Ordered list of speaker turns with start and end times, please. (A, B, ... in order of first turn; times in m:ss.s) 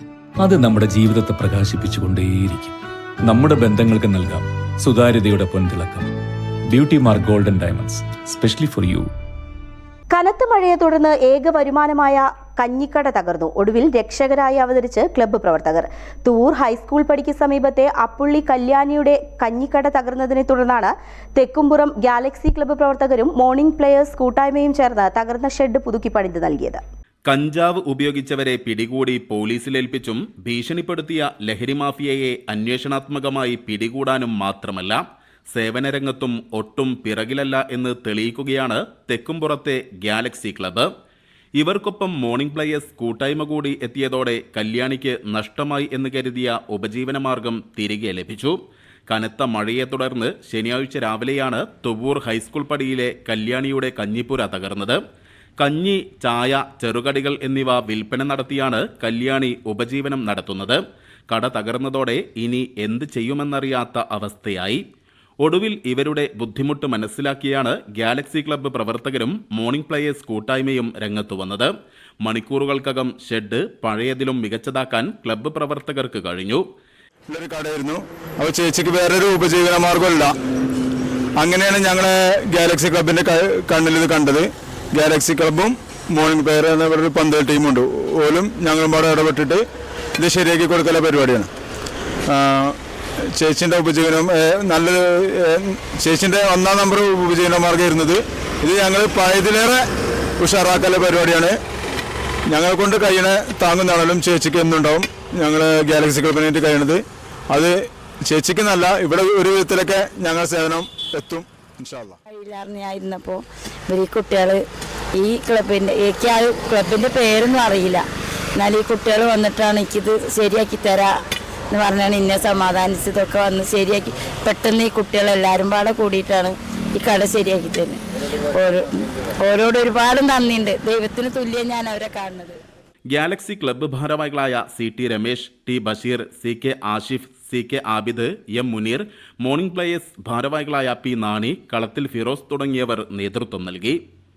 0:00.4-0:06.1 A
0:06.7-0:09.1 A
0:10.1-0:26.8 B
0:27.3-0:40.9 C
0:41.6-0:55.0 C
0:55.6-1:04.8 C
1:05.4-1:11.7 C
1:12.2-1:16.6 C
1:17.3-1:20.3 D
1:21.4-1:29.6 D
1:30.2-1:31.5 D
1:32.3-1:32.8 D
1:33.4-1:39.8 D
1:40.4-1:41.6 D
1:42.5-1:47.0 D
1:47.5-1:52.2 D
1:52.3-2:01.2 E
2:01.7-2:12.6 E
2:13.1-2:24.0 C